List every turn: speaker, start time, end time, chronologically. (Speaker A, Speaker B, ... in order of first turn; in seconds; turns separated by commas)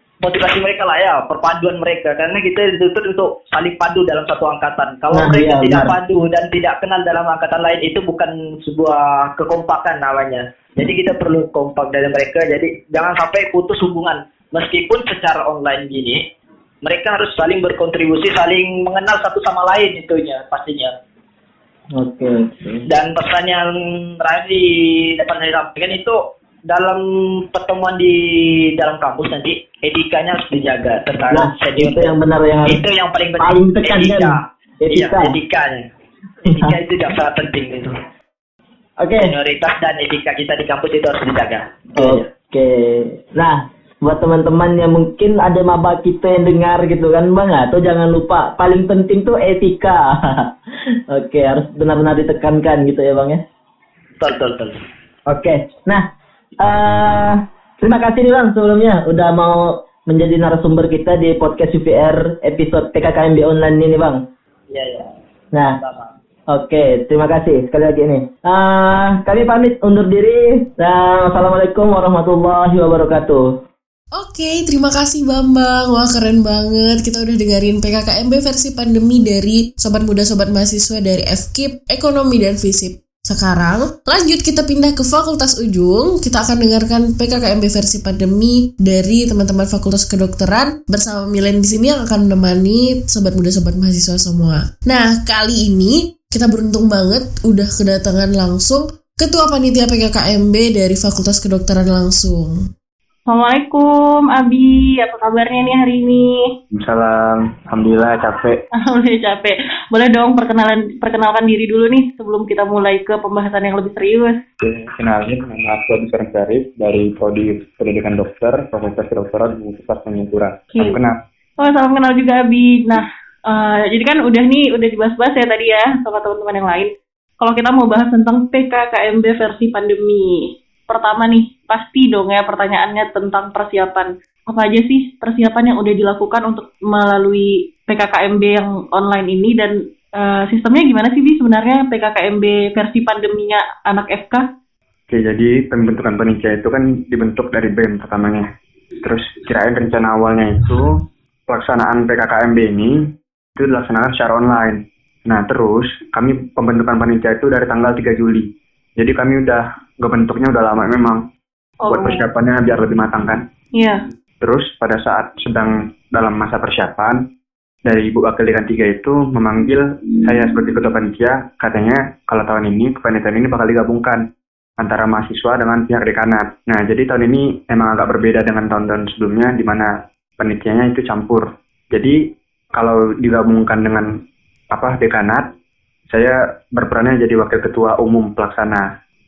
Speaker A: 0.2-16.2, Speaker B: 5.1-5.9, Speaker A: 16.8-20.9, Speaker B: 22.0-22.8, Speaker A: 22.9-26.2, Speaker A: 26.7-27.0, Speaker A: 27.5-32.1, Speaker B: 31.3-32.8, Speaker A: 32.7-34.4, Speaker B: 33.4-35.3, Speaker A: 34.9-35.9, Speaker B: 36.5-36.8, Speaker A: 36.5-37.9, Speaker B: 39.0-39.3, Speaker A: 39.2-42.3, Speaker B: 42.0-50.4, Speaker B: 51.1-53.4, Speaker A: 54.2-54.8, Speaker B: 55.3-56.0, Speaker B: 56.6-64.2, Speaker A: 64.7-65.1, Speaker A: 65.8-66.1, Speaker B: 66.5-73.5, Speaker C: 74.2-102.6, Speaker D: 103.3-106.4, Speaker E: 106.7-108.6, Speaker D: 108.8-114.3, Speaker E: 114.6-121.2, Speaker D: 120.7-121.0, Speaker D: 121.6-126.9, Speaker D: 127.4-144.4, Speaker E: 145.1-148.5, Speaker E: 149.0-150.9, Speaker E: 151.5-152.9, Speaker E: 153.6-158.4, Speaker E: 159.0-161.2, Speaker D: 161.8-162.2, Speaker E: 161.9-163.4, Speaker E: 164.4-167.2, Speaker E: 167.8-174.2, Speaker E: 174.8-182.2, Speaker E: 182.8-184.1, Speaker E: 184.7-185.4, Speaker E: 186.1-188.8